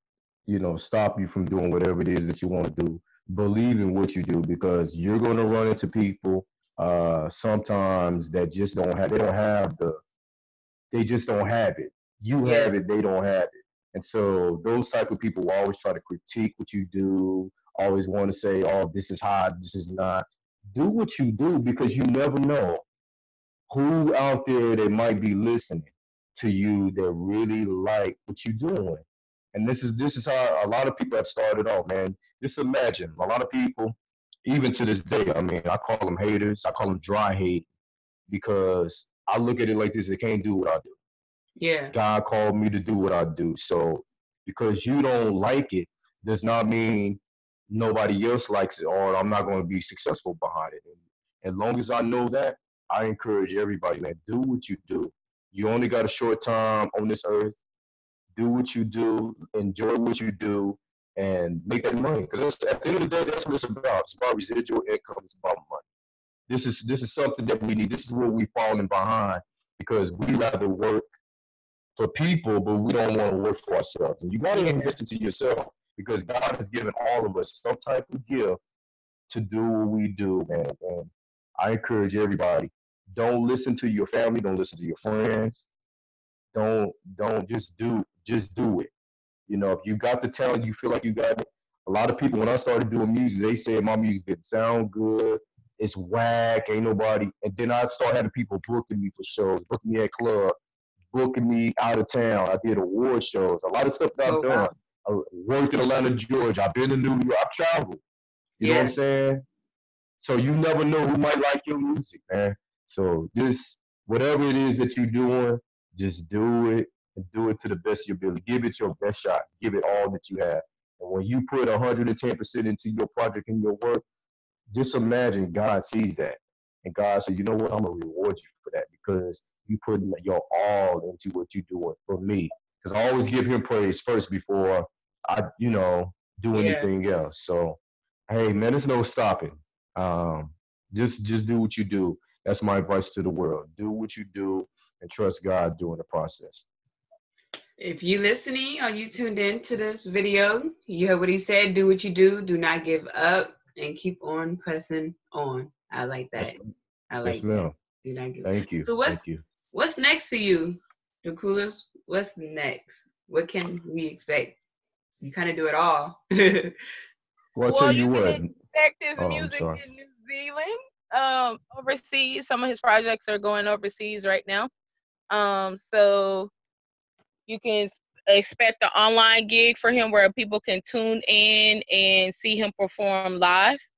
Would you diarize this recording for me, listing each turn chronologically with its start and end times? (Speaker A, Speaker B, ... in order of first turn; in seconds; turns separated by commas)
Speaker A: 0.5-10.0, Speaker A: 10.9-22.9, Speaker B: 12.4-12.7, Speaker A: 23.7-37.7, Speaker A: 38.3-41.0, Speaker B: 41.6-41.9, Speaker A: 41.9-57.6, Speaker A: 58.4-65.8, Speaker A: 66.5-71.1, Speaker A: 72.0-78.6, Speaker B: 74.5-74.9, Speaker A: 79.3-85.6, Speaker A: 86.5-88.9, Speaker A: 89.5-100.5, Speaker A: 101.1-108.0, Speaker B: 104.2-104.7, Speaker B: 108.6-109.0, Speaker A: 108.6-109.4, Speaker A: 110.2-124.0, Speaker A: 124.7-146.7, Speaker B: 136.5-136.9, Speaker B: 147.8-156.6, Speaker A: 156.4-156.6, Speaker B: 157.1-157.5, Speaker A: 157.2-157.8, Speaker B: 158.0-164.6, Speaker A: 158.4-159.4, Speaker B: 165.2-166.8, Speaker A: 167.6-168.5, Speaker C: 167.7-174.7, Speaker A: 169.2-169.8, Speaker C: 175.3-176.5, Speaker C: 177.5-183.8